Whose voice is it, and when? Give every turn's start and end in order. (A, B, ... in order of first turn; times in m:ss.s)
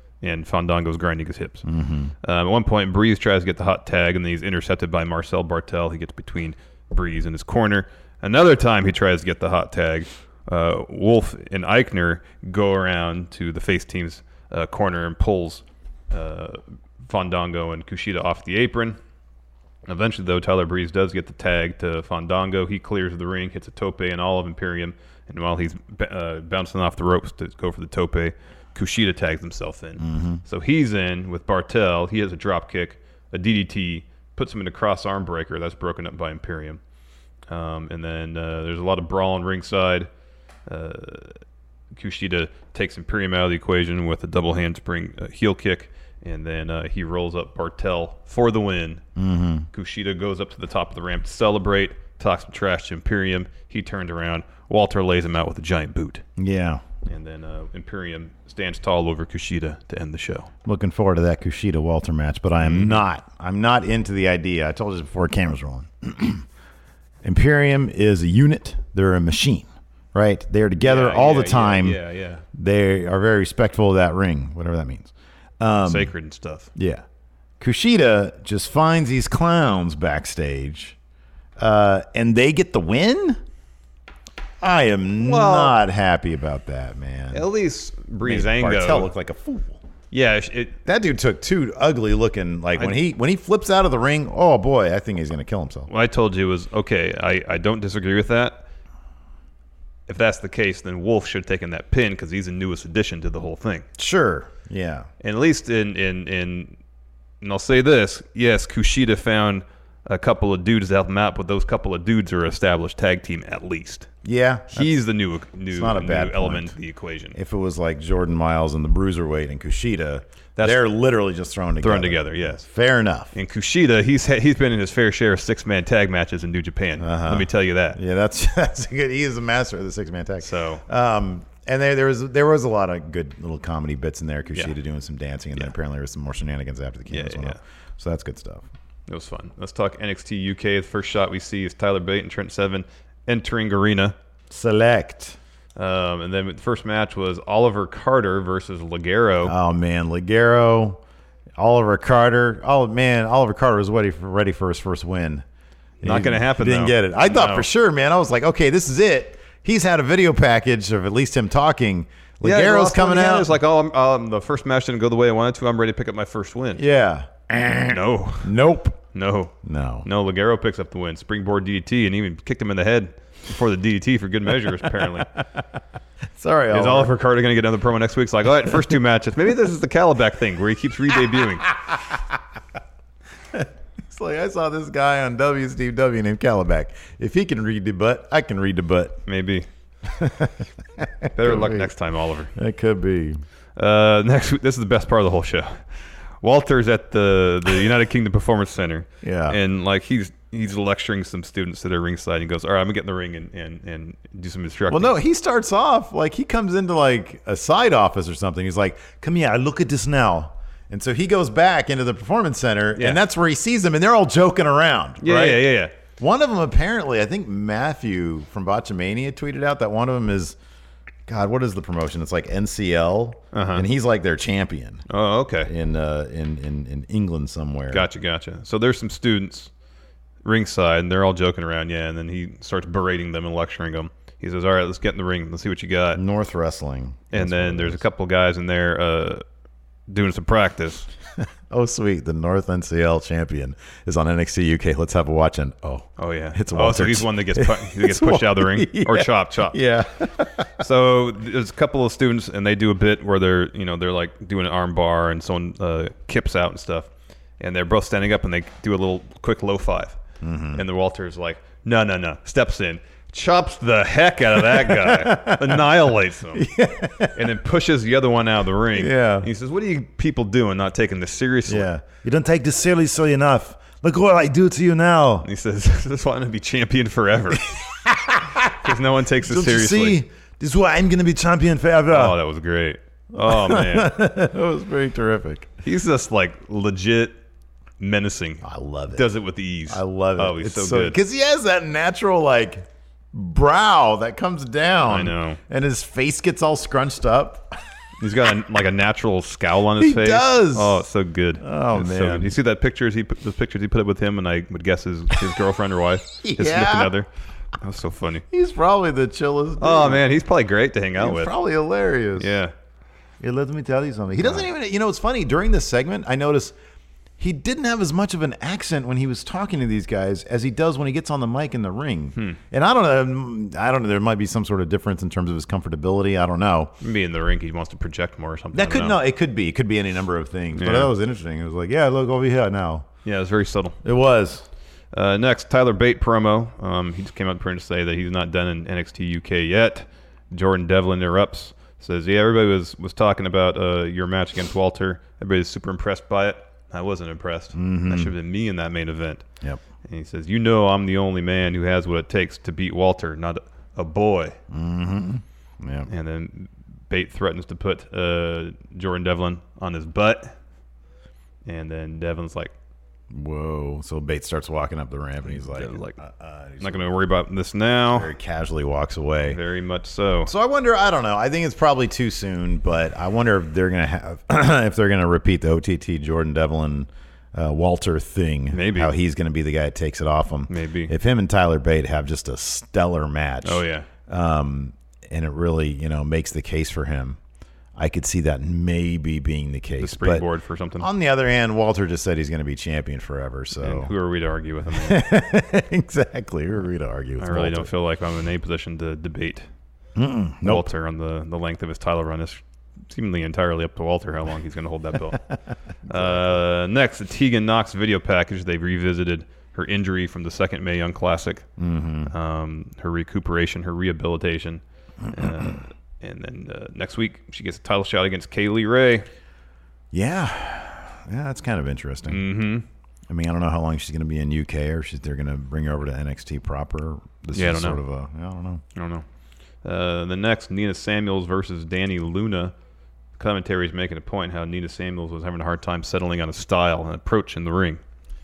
0:00.2-0:01.7 A
0:01.6-0:02.1 B
0:02.2-0:19.0 A
0:19.8-0:36.8 A
0:30.0-0:30.4 B
0:37.5-0:40.1 A
0:40.7-0:41.4 A
0:41.9-0:49.0 A
0:49.2-0:49.7 B
0:49.7-0:56.2 A
0:56.4-0:56.8 B
0:57.0-1:00.5 A
1:00.6-1:06.4 B
1:02.6-1:03.0 A
1:07.2-1:12.0 B
1:10.8-1:12.4 A
1:12.5-1:16.1 B
1:15.8-1:16.7 A
1:16.8-1:17.0 B
1:17.6-1:21.0 B
1:21.6-1:23.4 B
1:24.6-1:27.5 B
1:25.2-1:25.8 A
1:27.3-1:29.1 A
1:28.2-1:29.8 B
1:30.1-1:30.8 A
1:30.8-1:35.9 B
1:35.9-1:38.6 A
1:40.1-1:43.9 A
1:44.0-1:45.1 B
1:45.2-1:46.8 A
1:47.4-1:54.1 A
1:54.2-1:55.0 B
1:54.7-1:57.4 A
1:55.7-1:56.8 B
1:57.3-2:03.3 B
2:00.6-2:00.8 A
2:01.8-2:02.6 A
2:03.3-2:08.0 A
2:07.0-2:18.7 B
2:10.4-2:10.8 A
2:17.1-2:17.6 A
2:19.1-2:24.1 A
2:24.5-2:25.4 B
2:25.8-2:29.5 A
2:29.4-2:31.0 B
2:31.6-2:35.4 B
2:36.0-2:43.6 B
2:36.0-2:37.7 A
2:42.4-2:46.8 A
2:46.8-2:49.0 B
2:47.9-2:48.6 A
2:49.1-2:55.4 A
2:49.6-2:50.1 B
2:56.3-2:57.1 B
2:56.7-3:01.8 A
3:03.5-3:09.2 B
3:09.3-3:09.7 A
3:10.0-3:11.9 B
3:11.3-3:12.5 A
3:12.6-3:13.4 B
3:13.8-3:15.8 A
3:16.4-3:25.1 A
3:19.2-3:19.6 B
3:24.9-3:40.6 B
3:35.2-3:35.9 A
3:41.3-3:45.0 B
3:43.5-3:43.9 A
3:45.1-3:45.7 A
3:45.6-3:48.1 B
3:47.9-3:49.7 A
3:50.4-3:56.2 A
3:56.1-3:58.0 B
3:57.3-3:59.4 A
4:00.1-4:01.1 A
4:01.4-4:10.7 B
4:06.2-4:09.9 A
4:10.8-4:17.1 A
4:17.6-4:20.2 A
4:20.4-4:20.8 B
4:20.7-4:26.7 A
4:24.7-4:25.9 B
4:26.5-4:27.5 B
4:27.3-4:31.9 A
4:28.9-4:29.5 B
4:31.7-4:35.5 B
4:35.4-4:37.8 A
4:38.0-4:38.9 B
4:38.7-4:40.2 A
4:39.4-4:42.4 B
4:42.1-4:44.2 A
4:43.3-4:45.7 B
4:45.8-4:47.4 A
4:48.0-4:51.2 A
4:48.6-4:49.3 B
4:49.9-4:57.8 B
4:55.0-4:55.6 A
4:58.2-5:08.4 A
5:00.0-5:01.0 B
5:01.6-5:02.5 B
5:06.4-5:07.1 B
5:08.5-5:10.3 B
5:09.8-5:11.5 A
5:11.2-5:12.6 B
5:12.4-5:12.7 A
5:13.4-5:16.7 B
5:14.4-5:14.6 A
5:17.4-5:26.9 B
5:27.0-5:29.2 A
5:28.7-5:33.1 B
5:30.8-5:31.1 A
5:33.2-5:34.0 A
5:34.0-5:34.6 B
5:35.1-5:49.4 A
5:47.7-5:48.3 B
5:50.1-5:54.6 A
5:54.7-5:56.1 B
5:56.1-6:00.5 A
6:01.6-6:02.7 A
6:03.3-6:07.1 B
6:05.5-6:06.2 A
6:06.8-6:08.3 A
6:08.1-6:09.6 B
6:09.4-6:10.5 A
6:10.4-6:27.4 B
6:18.7-6:19.1 A
6:20.7-6:21.1 A
6:23.6-6:24.1 A
6:28.0-6:30.4 B
6:30.0-6:31.1 A
6:31.0-6:34.1 B
6:33.8-6:35.2 A
6:34.9-6:37.9 B
6:37.4-6:39.7 A
6:40.2-6:40.9 B
6:40.6-6:45.4 A
6:46.1-6:51.6 A
6:46.1-6:46.6 B
6:51.8-6:52.3 B
6:52.3-6:59.3 A
6:55.2-6:55.8 B
7:00.1-7:02.4 B
7:02.3-7:02.8 A
7:03.3-7:08.8 B
7:07.5-7:08.0 A
7:08.9-7:09.2 A
7:09.8-7:12.7 A
7:13.4-7:18.0 A